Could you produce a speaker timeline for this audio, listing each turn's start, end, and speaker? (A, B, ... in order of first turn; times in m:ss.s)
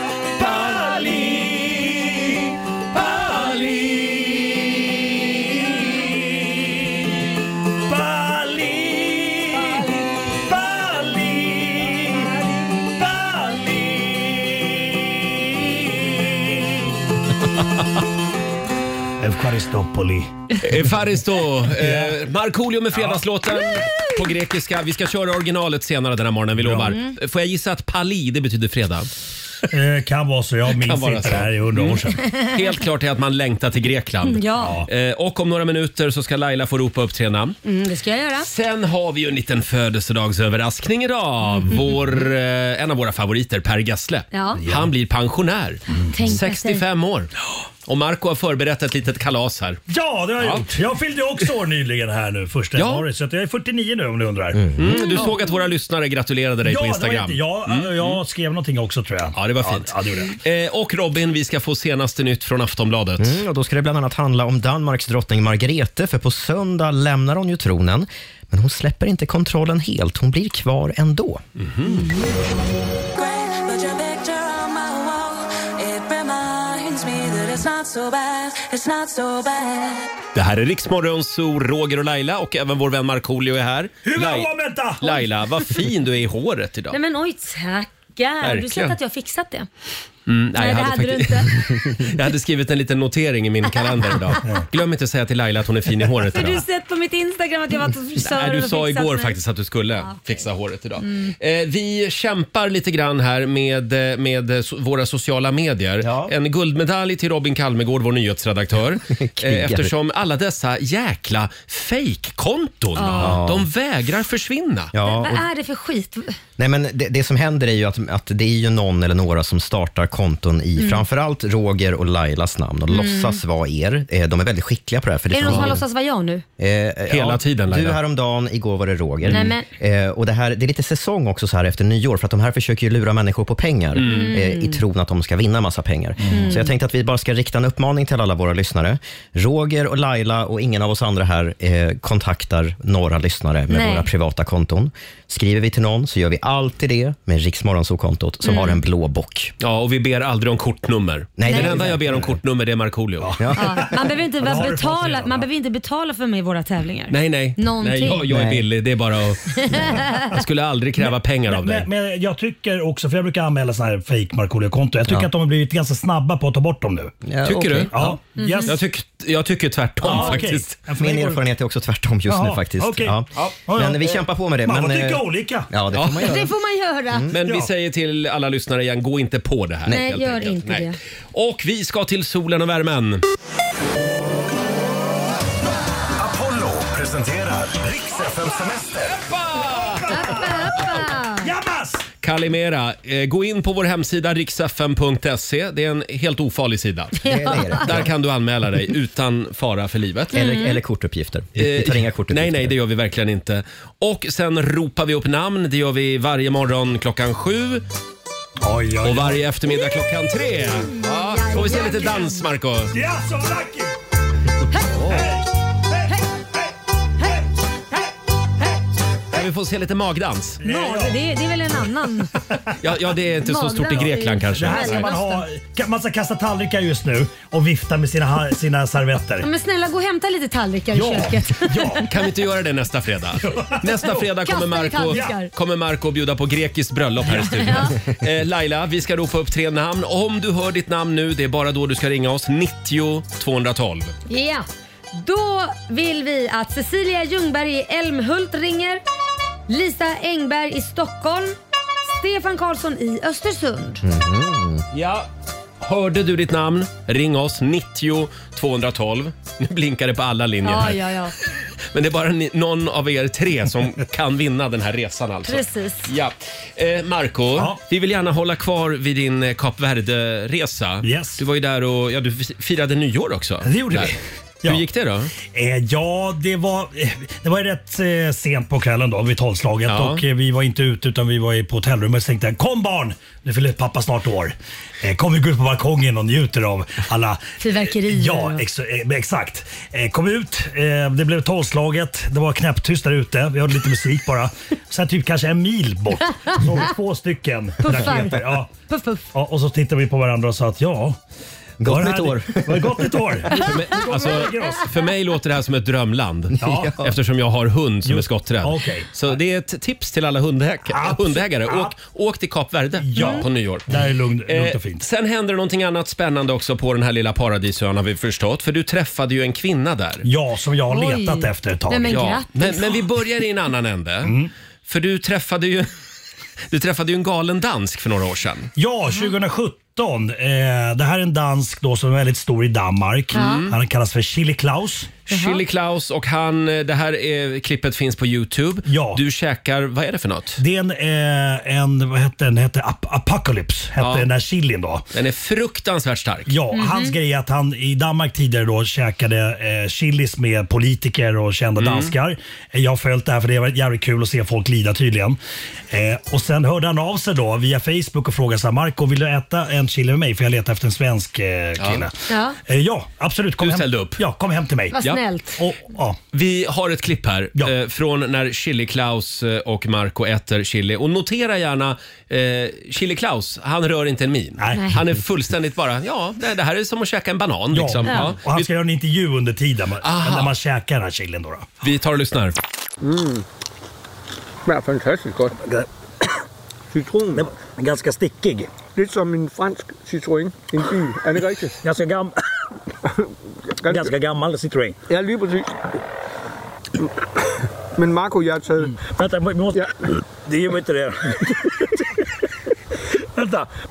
0:00.4-0:07.3 A
0:07.8-0:17.0 A
0:19.2-0:20.3 A
0:20.6-0:29.1 B
0:21.7-0:22.1 A
0:22.9-0:23.2 A
0:26.6-0:27.0 A
0:29.7-0:32.2 A
0:30.7-0:37.6 B
0:34.3-0:34.8 C
0:34.6-0:34.9 A
0:37.6-0:38.5 C
0:38.4-0:47.3 B
0:44.3-0:44.6 C
0:44.6-0:44.9 A
0:45.9-0:46.8 C
0:47.9-0:49.8 B
0:49.9-0:54.6 A
0:50.4-0:50.7 B
0:52.8-0:53.1 B
0:54.5-0:55.1 D
0:54.8-0:58.2 B
0:56.6-1:00.4 A
0:59.4-1:03.4 B
1:03.2-1:11.4 D
1:11.6-1:12.1 B
1:13.2-1:15.3 E
1:15.9-1:20.0 E
1:20.3-1:27.0 B
1:24.0-1:25.0 A
1:26.9-1:29.7 C
1:28.4-1:29.0 B
1:30.3-1:36.6 B
1:30.6-1:31.5 C
1:36.3-1:39.4 C
1:38.2-1:54.9 B
1:41.0-1:41.3 C
1:46.0-1:46.3 D
1:49.1-1:49.9 D
1:53.0-1:53.4 C
1:53.1-1:53.7 D
1:54.9-1:55.5 D
1:55.0-1:56.4 C
1:56.6-2:05.8 D
2:00.8-2:01.0 C
2:02.9-2:03.4 C
2:05.3-2:06.4 C
2:05.4-2:05.8 B
2:06.6-2:29.5 D
2:07.1-2:08.0 B
2:09.3-2:09.7 C
2:14.0-2:14.3 B
2:14.1-2:14.8 C
2:16.3-2:16.5 A
2:16.3-2:16.7 C
2:23.7-2:24.1 C
2:28.4-2:28.8 C
2:29.6-2:33.4 B
2:31.4-2:32.2 D
2:31.4-2:31.7 C
2:31.9-2:32.3 A
2:33.2-2:35.5 A
2:33.4-2:34.0 D
2:33.5-2:38.3 C
2:37.1-2:41.9 B
2:38.3-2:38.6 D
2:39.6-2:40.3 C
2:41.0-2:47.2 A
2:47.2-2:48.0 D
2:47.4-2:50.8 B
2:47.9-2:48.8 A
2:48.4-2:48.7 C
2:50.0-2:51.4 A
2:50.0-2:56.5 D
2:52.3-2:55.7 A
2:55.9-2:56.4 B
2:56.2-2:57.3 C
2:57.1-2:57.4 D
2:57.3-3:03.2 B
2:57.4-2:57.7 A
2:59.9-3:01.0 C
3:06.2-3:09.2 F
3:09.3-3:10.1 B
3:09.6-3:12.1 A
3:10.1-3:11.5 C
3:12.2-3:17.2 B
3:17.2-3:17.8 C
3:17.2-3:18.1 D
3:17.7-3:20.3 B
3:20.3-3:22.8 D
3:20.3-3:20.8 C
3:21.6-3:27.8 B
3:28.6-3:29.4 A
3:29.0-3:32.9 B
3:30.9-3:32.5 C
3:32.9-3:34.0 A
3:34.7-3:35.1 C
3:35.0-3:36.7 A
3:39.3-3:40.6 B
3:40.6-3:41.2 A
3:40.6-3:42.3 C
3:42.8-3:45.1 B
3:43.4-3:45.5 C
3:44.6-3:49.5 A
3:49.4-3:52.0 C
3:50.9-3:52.1 A
3:52.1-4:04.1 B
3:53.4-3:54.2 A
3:54.4-3:55.5 C
3:55.1-3:55.4 A
3:57.2-3:57.8 A
3:57.6-3:58.0 C
4:04.3-4:09.0 C
4:09.7-4:11.6 C
4:12.1-4:14.0 C
4:14.0-4:14.8 D
4:14.9-4:15.3 B
4:15.8-4:21.1 B
4:20.6-4:21.4 C
4:21.9-4:34.1 B
4:25.4-4:26.1 C
4:31.0-4:31.4 A
4:33.6-4:34.8 A
4:34.7-4:35.3 B
4:35.5-4:58.7 A
4:39.9-4:40.2 B
4:47.6-4:48.6 C
4:57.8-4:59.3 C
4:59.3-5:01.2 A
5:01.8-5:03.2 D
5:01.8-5:04.9 A
5:03.6-5:13.9 B
5:06.5-5:07.2 D
5:06.6-5:07.0 A
5:08.0-5:09.4 A
5:10.9-5:11.9 A
5:13.0-5:15.0 A
5:13.2-5:13.4 C
5:14.5-5:20.3 B
5:20.2-5:22.4 A
5:20.9-5:23.0 C
5:22.1-5:24.4 B
5:24.2-5:24.5 A
5:24.9-5:25.9 B
5:26.7-5:28.7 B
5:28.8-5:35.1 A
5:33.3-5:33.7 C
5:33.3-5:33.8 B
5:35.3-5:40.6 B
5:35.3-5:35.6 C
5:38.9-5:39.2 A
5:40.6-5:45.0 A
5:44.0-5:44.3 B
5:45.1-5:46.5 B
5:46.5-5:55.4 A
5:46.7-5:47.1 C
5:51.8-5:52.1 B
5:55.9-6:05.0 A
6:01.8-6:02.0 B
6:02.3-6:02.6 C
6:03.6-6:04.2 B
6:04.9-6:05.6 C
6:05.6-6:06.2 A
6:06.3-6:18.7 B
6:14.6-6:15.0 A
6:14.7-6:15.0 C
6:17.7-6:21.7 A
6:20.0-6:20.6 B
6:21.8-6:22.6 B
6:23.0-6:23.4 G
6:24.6-6:25.6 G
6:26.9-6:27.5 G
6:27.4-6:28.7 A
6:29.0-6:31.8 G
6:31.8-6:32.4 A
6:33.8-6:34.1 G
6:33.9-6:35.0 A
6:35.1-6:35.7 G
6:38.0-6:39.0 G
6:38.9-6:39.9 A
6:40.4-6:41.4 A
6:43.4-6:43.7 A